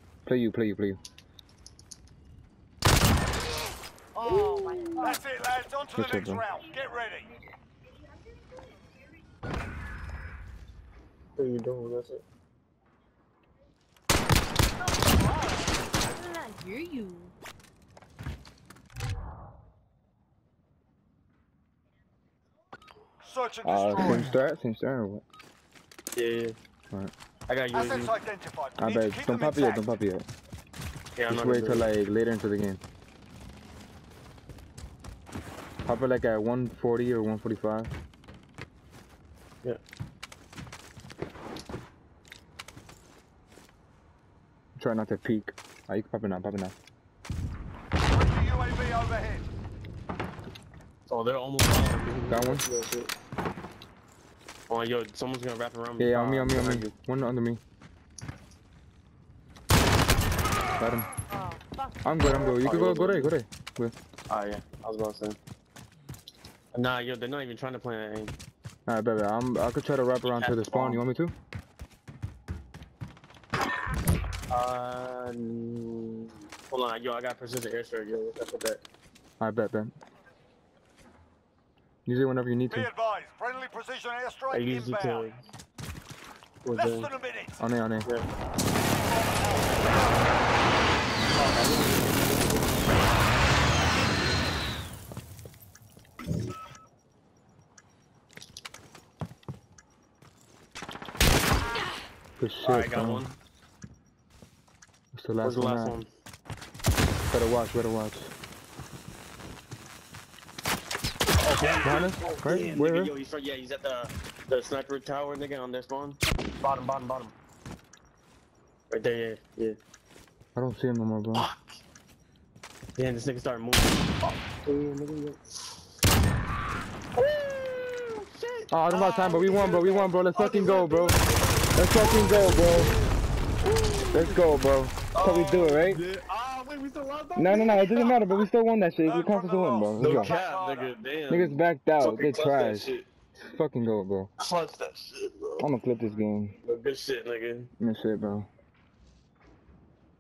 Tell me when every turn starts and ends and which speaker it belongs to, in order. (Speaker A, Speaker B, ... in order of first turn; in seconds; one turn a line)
Speaker A: 0.2-1.0
Speaker B: 4.1-5.2
Speaker C: 4.2-5.1
Speaker D: 5.0-7.3
Speaker A: 5.9-6.5
Speaker C: 11.3-12.2
Speaker D: 15.0-15.7
Speaker B: 16.1-17.3
Speaker D: 23.2-24.3
Speaker A: 23.6-25.2
Speaker C: 26.1-26.5
Speaker C: 27.5-28.2
Speaker D: 27.7-29.9
Speaker A: 28.8-30.2
Speaker C: 31.2-31.9
Speaker A: 31.3-32.8
Speaker A: 35.9-37.9
Speaker A: 44.8-46.7
Speaker D: 48.0-49.5
Speaker C: 51.1-53.1
Speaker A: 52.2-52.6
Speaker C: 54.7-56.9
Speaker A: 56.0-57.6
Speaker A: 60.8-61.1
Speaker B: 61.3-62.0
Speaker A: 62.0-63.9
Speaker C: 62.6-63.3
Speaker C: 64.3-65.4
Speaker C: 66.7-68.3
Speaker A: 68.9-71.3
Speaker C: 70.2-71.0
Speaker C: 74.5-78.8
Speaker A: 79.4-79.9
Speaker A: 82.0-82.9
Speaker D: 82.7-85.3
Speaker C: 84.5-85.4
Speaker C: 86.6-87.1
Speaker D: 86.7-87.6
Speaker A: 87.6-88.1
Speaker D: 88.7-90.3
Speaker C: 91.3-92.9
Speaker A: 102.4-103.3
Speaker C: 102.6-103.4
Speaker A: 105.1-106.0
Speaker C: 105.4-106.1
Speaker A: 107.3-108.3
Speaker C: 111.4-117.3
Speaker A: 111.8-113.1
Speaker C: 118.9-119.8
Speaker A: 120.5-121.5
Speaker C: 121.3-121.7
Speaker C: 123.0-125.4
Speaker C: 127.2-128.7
Speaker A: 128.7-131.2
Speaker C: 130.3-133.1
Speaker A: 131.7-132.9
Speaker C: 133.6-134.4
Speaker A: 134.0-136.0
Speaker C: 135.1-138.2
Speaker A: 137.3-140.3
Speaker D: 139.0-140.9
Speaker C: 140.0-143.0
Speaker A: 141.3-144.3
Speaker C: 144.4-145.6
Speaker A: 145.6-146.6
Speaker C: 146.6-147.7
Speaker A: 147.8-148.5